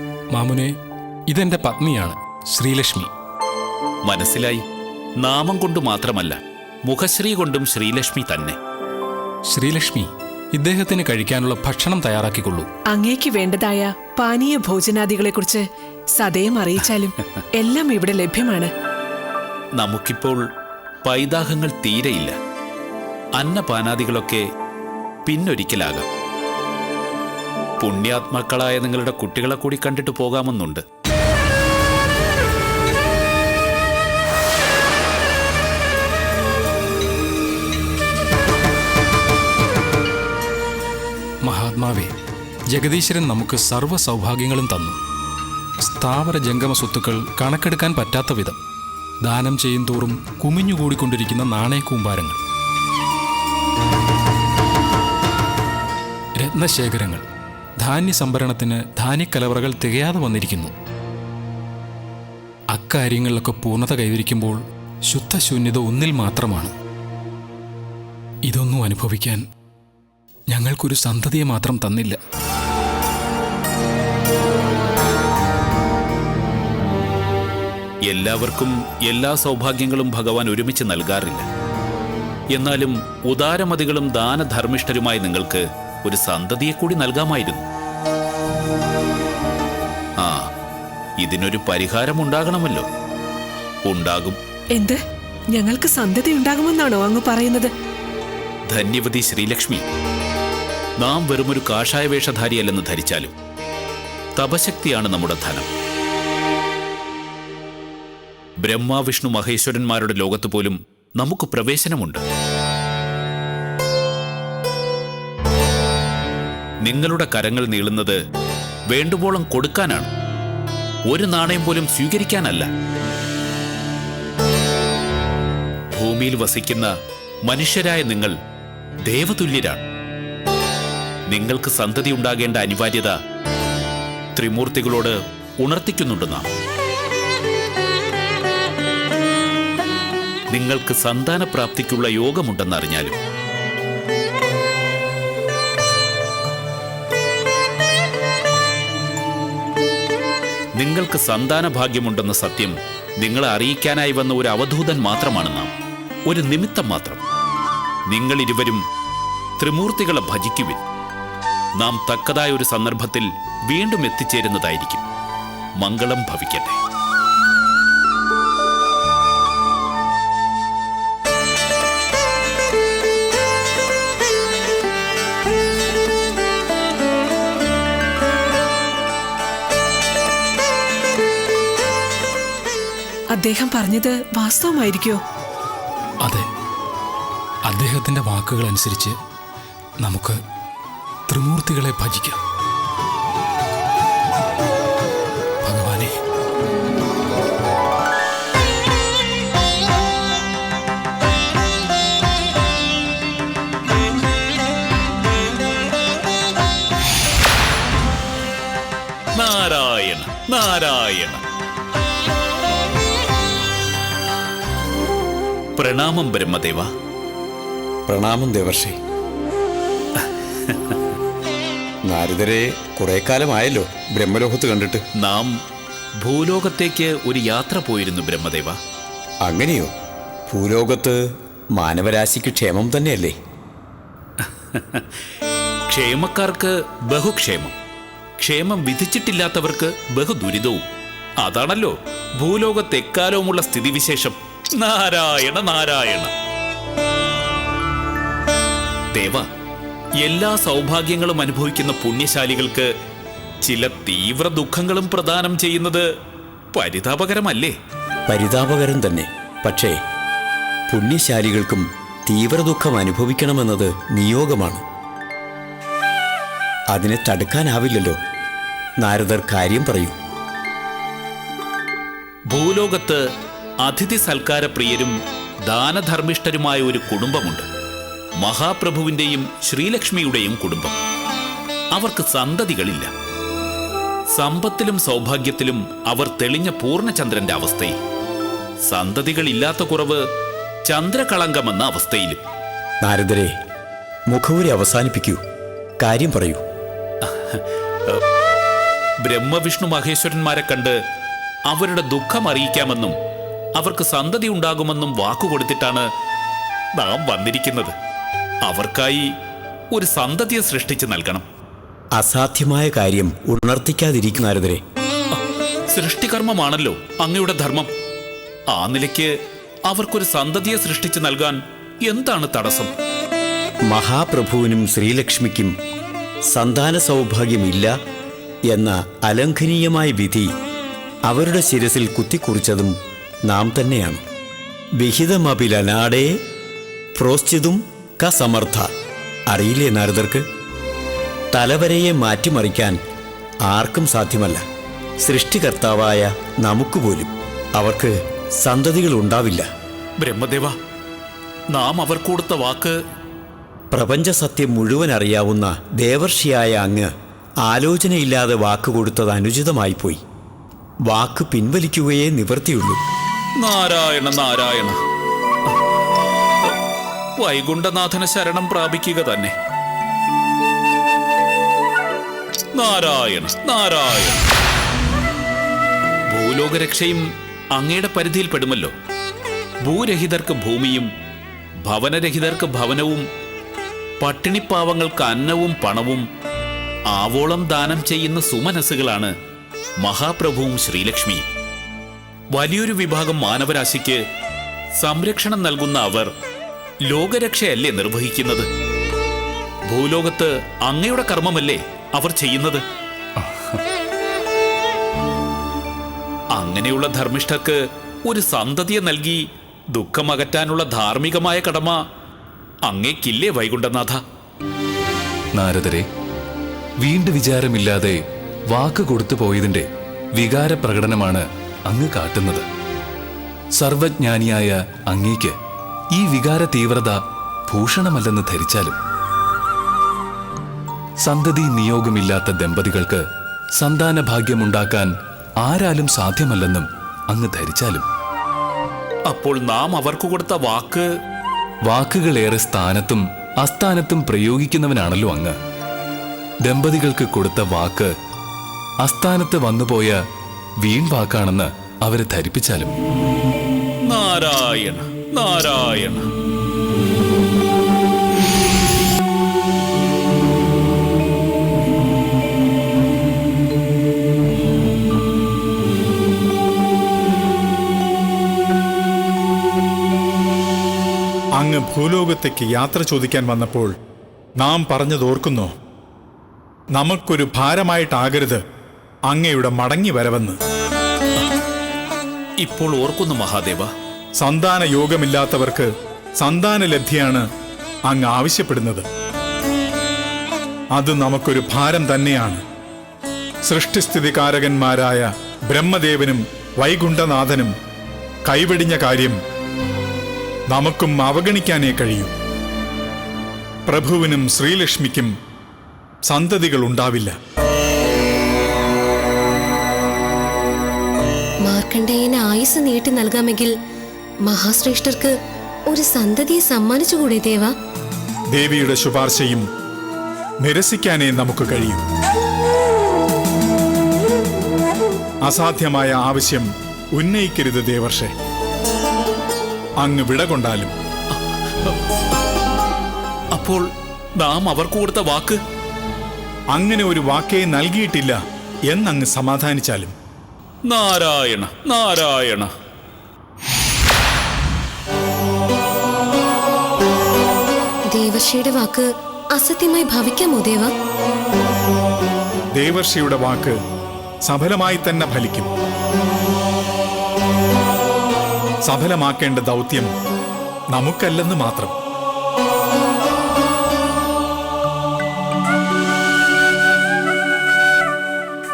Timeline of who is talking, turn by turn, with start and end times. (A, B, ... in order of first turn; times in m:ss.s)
0:00.3-0:00.7 A
0:01.3-0:03.1 A
0:04.0-0:04.6 B
0:05.2-0:08.6 B
0:09.5-0:12.7 A
0:12.9-0:15.6 C
0:16.2-0:18.7 C
0:19.8-0:20.4 B
0:21.0-0:22.3 B
0:23.4-0:24.4 B
0:25.2-0:26.0 B
0:27.8-0:30.8 B
0:41.4-0:42.1 A
0:42.7-0:45.0 A
0:45.8-0:48.6 A
0:49.2-0:52.4 A
0:56.4-0:57.2 A
0:57.8-1:00.7 A
1:02.7-1:06.7 A
1:08.5-1:09.4 A
1:10.5-1:12.2 A
1:18.1-1:21.4 B
1:22.5-1:27.6 B
1:30.2-1:30.5 B
1:31.2-1:32.9 B
1:33.8-1:34.4 B
1:34.7-1:35.0 C
1:35.5-1:37.7 C
1:38.7-1:39.8 B
1:41.0-1:43.3 B
1:44.4-1:45.7 B
1:48.6-1:52.2 B
1:56.8-1:58.2 B
1:58.9-2:00.1 B
2:01.1-2:02.7 B
2:05.9-2:06.9 B
2:07.4-2:08.3 B
2:09.0-2:09.8 B
2:11.3-2:13.1 B
2:14.3-2:16.5 B
2:20.5-2:23.2 B
2:30.8-2:35.7 B
2:36.3-2:37.2 B
2:38.1-2:38.8 B
2:39.6-2:40.8 B
2:41.8-2:45.0 B
2:45.8-2:46.8 B
3:03.3-3:05.2 C
3:07.7-3:09.1 A
3:10.0-3:10.4 A
3:11.3-3:12.4 A
3:15.6-3:16.1 A
3:29.4-3:31.4 B
3:35.8-3:36.9 B
3:38.1-3:39.0 D
3:40.7-3:41.0 B
3:42.0-3:45.0 D
3:45.2-3:45.6 B
3:46.2-3:48.8 B
3:49.4-3:49.9 D
3:50.5-3:53.3 D
3:54.4-3:55.0 B
3:55.9-3:57.7 B
3:58.4-4:00.8 B
4:01.4-4:06.3 B
4:09.1-4:09.4 B
4:10.2-4:12.9 B
4:13.6-4:16.0 B
4:16.7-4:17.7 B
4:18.3-4:20.0 D
4:20.9-4:24.8 D
4:26.9-4:28.2 D
4:29.0-4:30.1 D
4:32.5-4:33.2 B
4:33.8-4:35.1 B
4:35.7-4:37.6 B
4:38.4-4:40.9 B
4:41.9-4:43.1 B
4:44.3-4:48.0 B
4:48.9-4:50.2 B
4:50.8-4:52.4 B
4:53.0-4:53.5 D
4:54.3-4:55.4 D
4:56.0-4:56.6 D
4:57.2-4:58.2 B
4:59.2-5:01.0 B
5:01.7-5:03.1 B
5:03.8-5:06.0 B
5:07.0-5:07.9 B
5:08.6-5:09.3 B
5:09.9-5:11.4 B
5:12.1-5:14.8 D
5:15.9-5:17.9 B
5:18.7-5:19.3 B
5:19.9-5:22.9 B
5:23.9-5:25.7 D
5:26.5-5:27.9 D
5:28.7-5:30.5 D
5:31.2-5:32.9 D
5:33.5-5:34.2 D
5:35.0-5:36.4 D
5:37.1-5:38.9 D
5:39.5-5:40.4 D
5:41.5-5:43.0 D
5:43.6-5:44.6 D
5:45.2-5:49.6 D
5:50.2-5:50.7 B
5:51.7-5:53.0 B
5:53.9-5:57.1 D
5:57.6-6:00.2 D
6:01.1-6:03.0 D
6:03.6-6:05.0 B
6:07.4-6:09.5 B
6:12.7-6:14.4 B
6:16.3-6:18.9 B
6:19.8-6:21.1 B
6:21.8-6:23.2 B
6:24.2-6:26.2 B
6:27.1-6:29.3 B
6:30.0-6:31.4 B
6:32.5-6:34.2 B
6:35.0-6:36.3 B
6:37.1-6:38.7 B
6:39.9-6:42.8 B
6:46.5-6:49.4 B
6:49.9-6:52.0 B
6:52.9-6:54.2 B
6:55.5-6:56.0 E
6:57.0-6:58.2 E
6:58.7-6:59.8 E
7:00.4-7:02.6 E
7:03.8-7:05.5 E
7:06.1-7:07.2 E
7:07.7-7:09.0 E
7:11.2-7:13.2 E
7:13.8-7:15.1 E
7:15.6-7:18.0 E
7:19.3-7:21.1 B
7:21.8-7:25.6 E
7:26.6-7:28.1 E
7:29.0-7:30.1 E
7:30.8-7:32.9 E
7:34.1-7:36.2 B
7:51.6-7:53.9 F
7:54.6-7:55.7 F
7:56.9-7:58.6 F
7:59.3-8:00.6 F
8:02.6-8:03.9 B
8:04.4-8:05.9 F
8:06.4-8:07.4 F
8:08.1-8:09.0 F
8:10.9-8:12.6 F
8:13.6-8:17.7 F
8:18.4-8:19.4 F
8:20.7-8:22.3 F
8:23.9-8:25.3 F
8:26.2-8:27.3 F
8:31.6-8:33.7 G
8:34.4-8:35.3 G
8:35.9-8:37.7 G
8:38.5-8:39.6 F
8:40.6-8:42.0 F
8:45.4-8:48.3 F
8:50.0-8:50.9 F
8:51.4-8:52.0 B
8:53.5-8:53.8 B
8:54.4-8:55.6 B
8:56.7-8:58.4 F
8:58.9-9:00.1 F
9:00.9-9:02.7 B
9:08.1-9:10.9 G
9:12.7-9:13.8 F
9:14.4-9:15.7 F
9:18.8-9:20.1 F
9:20.9-9:21.9 F